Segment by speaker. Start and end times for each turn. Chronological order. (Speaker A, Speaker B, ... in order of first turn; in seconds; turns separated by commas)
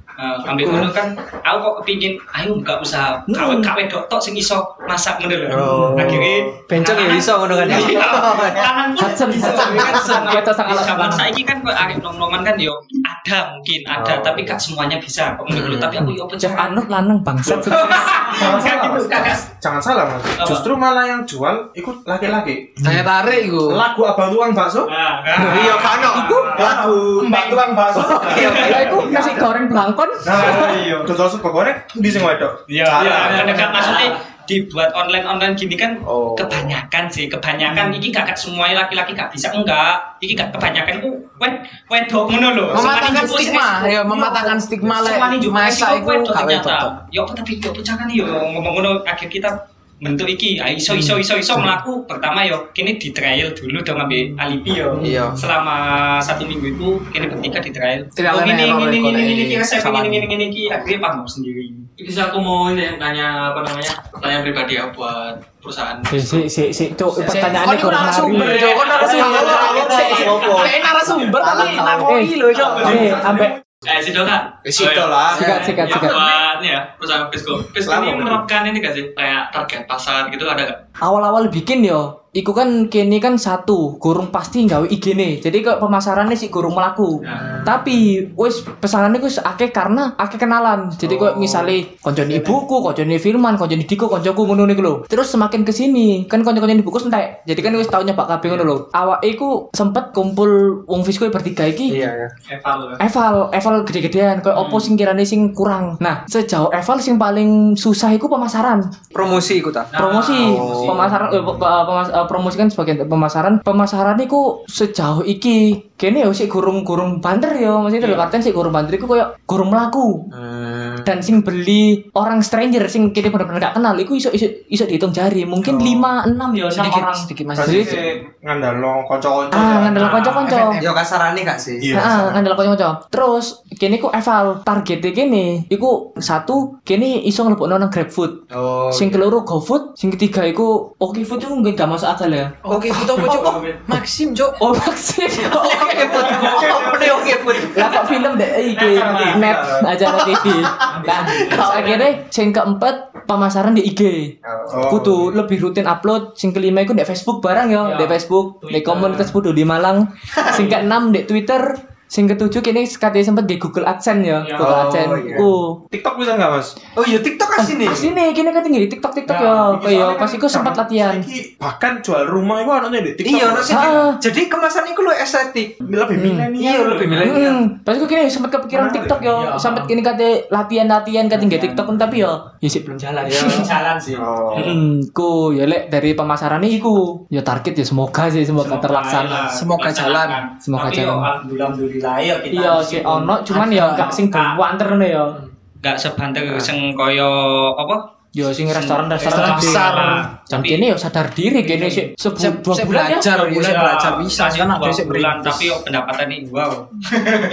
Speaker A: 0.2-16.8, Speaker B: 3.3-3.7, Speaker C: 5.5-8.7, Speaker B: 5.7-6.1, Speaker D: 7.6-8.2, Speaker B: 9.0-11.3, Speaker C: 9.6-10.0, Speaker C: 13.9-14.6, Speaker C: 15.5-16.1, Speaker B: 16.4-18.3, Speaker D: 17.4-22.9, Speaker A: 17.7-19.4, Speaker A: 20.4-20.7, Speaker E: 22.8-23.8, Speaker D: 23.6-29.5, Speaker A: 24.9-26.7, Speaker F: 25.4-25.9, Speaker E: 25.6-27.3, Speaker E: 28.0-28.6, Speaker C: 28.0-29.0, Speaker B: 28.4-30.8, Speaker D: 30.2-33.9, Speaker F: 30.3-30.9, Speaker F: 32.8-34.2, Speaker A: 32.9-61.9, Speaker C: 36.0-36.7, Speaker E: 42.7-46.9, Speaker E: 55.0-55.4, Speaker C: 55.0-55.4, Speaker E: 58.1-60.3, Speaker F: 62.0-66.5, Speaker B: 66.1-69.6, Speaker E: 67.2-73.1, Speaker F: 68.2-71.1, Speaker D: 68.9-70.8, Speaker C: 69.9-70.6, Speaker D: 71.3-73.9, Speaker B: 72.0-73.5, Speaker F: 72.6-73.2, Speaker F: 73.8-80.8, Speaker D: 74.8-75.5, Speaker E: 75.2-76.0, Speaker B: 75.3-76.2, Speaker D: 77.8-78.4, Speaker B: 81.0-102.0, Speaker F: 87.2-87.6, Speaker C: 91.0-91.7, Speaker C: 101.9-102.3, Speaker F: 102.5-103.0, Speaker B: 103.0-108.8, Speaker C: 109.1-111.1, Speaker B: 109.9-120.3, Speaker F: 110.0-111.0, Speaker C: 120.3-121.2, Speaker B: 121.0-128.0, Speaker E: 126.7-128.0, Speaker D: 127.6-130.3, Speaker B: 129.5-130.8, Speaker E: 130.2-130.9, Speaker C: 130.8-131.9, Speaker D: 131.8-132.4, Speaker B: 131.9-142.5, Speaker C: 138.5-139.2, Speaker E: 142.7-144.6, Speaker C: 142.7-143.7, Speaker B: 144.6-146.9, Speaker E: 145.5-146.8, Speaker C: 145.6-148.1, Speaker B: 147.5-154.3, Speaker D: 148.7-150.5, Speaker F: 150.9-151.8, Speaker C: 154.4-155.0, Speaker D: 154.7-155.3, Speaker B: 154.8-165.8, Speaker A: 157.8-158.1, Speaker A: 158.7-159.1, Speaker F: 158.9-159.2, Speaker C: 160.3-160.7, Speaker A: 164.4-164.7, Speaker C: 164.6-165.5, Speaker D: 165.4-166.7, Speaker C: 166.9-168.1, Speaker B: 167.6-171.2, Speaker D: 169.5-174.0, Speaker C: 173.2-175.8, Speaker B: 173.7-174.2, Speaker D: 175.8-177.5, Speaker B: 176.2-176.5, Speaker C: 176.6-177.6, Speaker B: 177.2-183.7, Speaker D: 178.7-179.3, Speaker A: 183.3-184.8, Speaker C: 184.1-184.8, Speaker B: 184.5-189.4, Speaker A: 188.6-194.6, Speaker E: 189.5-190.4, Speaker B: 190.6-191.3, Speaker B: 192.5-195.4, Speaker E: 193.5-194.2, Speaker A: 195.8-198.0, Speaker C: 196.5-196.7, Speaker B: 198.3-199.9, Speaker A: 198.6-200.8, Speaker E: 199.3-200.3, Speaker B: 200.5-203.3, Speaker A: 201.6-202.1, Speaker E: 202.4-205.7, Speaker A: 203.3-207.3